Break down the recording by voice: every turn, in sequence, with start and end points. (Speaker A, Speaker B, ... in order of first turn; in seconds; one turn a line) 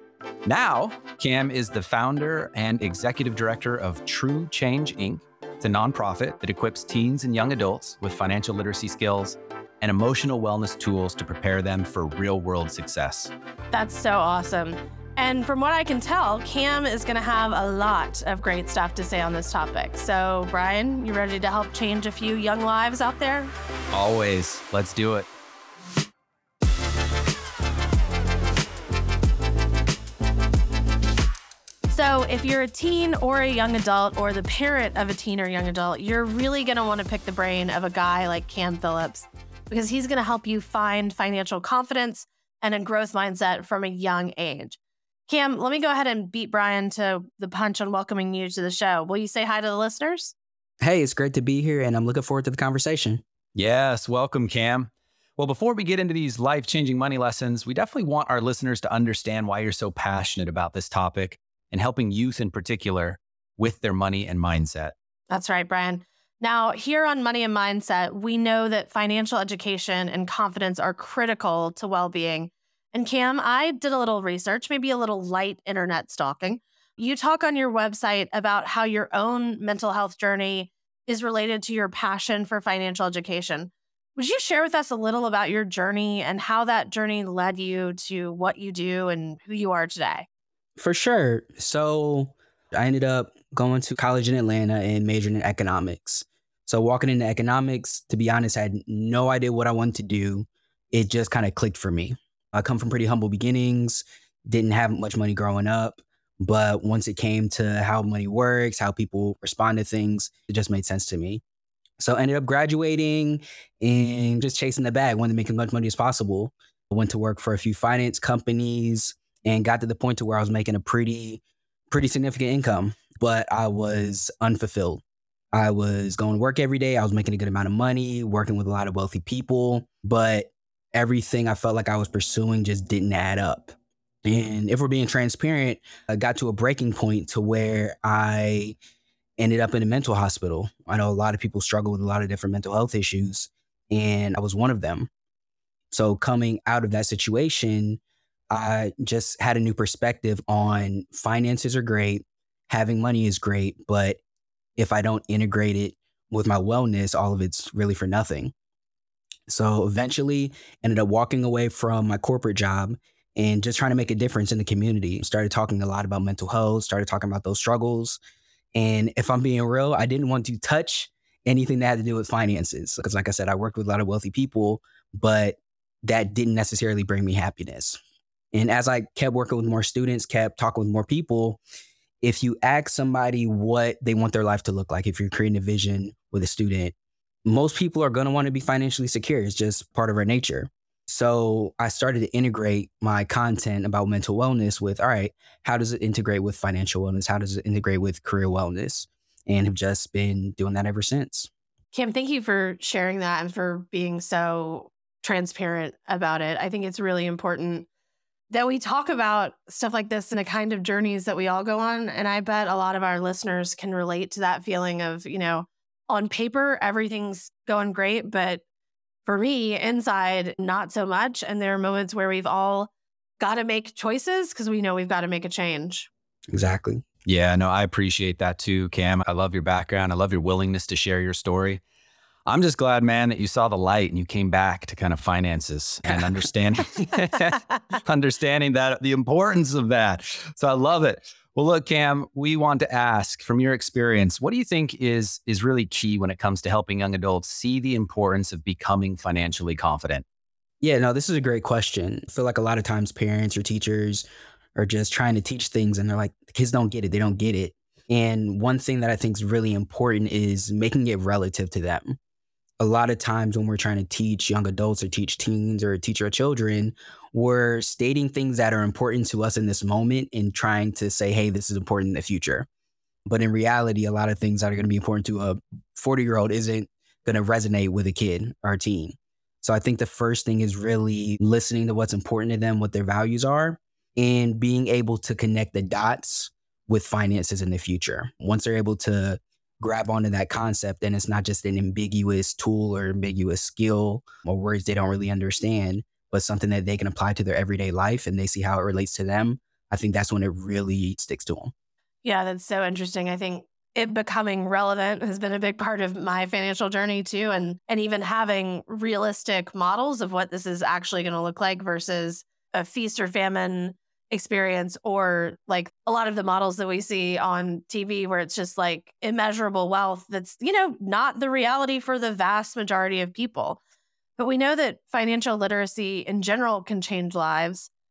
Speaker A: 0.5-13.3
Speaker B: 13.7-23.5
Speaker A: 23.9-25.3
Speaker B: 31.9-50.4
Speaker C: 50.8-53.2
Speaker A: 53.5-64.9
Speaker B: 65.3-90.3
Speaker C: 90.8-111.4
Speaker C: 112.0-138.8
Speaker C: 139.4-145.1
Speaker C: 145.9-148.0
Speaker C: 148.5-154.2
Speaker C: 154.8-158.5
Speaker C: 159.5-168.2
Speaker C: 168.8-178.0
Speaker C: 178.5-181.6
Speaker C: 182.2-186.9
Speaker C: 187.5-201.5
Speaker B: 201.9-207.9
Speaker B: 208.5-218.6
Speaker B: 219.3-226.1
Speaker C: 226.5-227.1
Speaker A: 227.3-231.8
Speaker A: 232.5-250.2
Speaker C: 236.1-236.4
Speaker C: 250.8-254.2
Speaker C: 254.8-262.2
Speaker C: 262.8-272.7
Speaker C: 273.3-301.7
Speaker B: 302.2-323.8
Speaker B: 324.4-327.9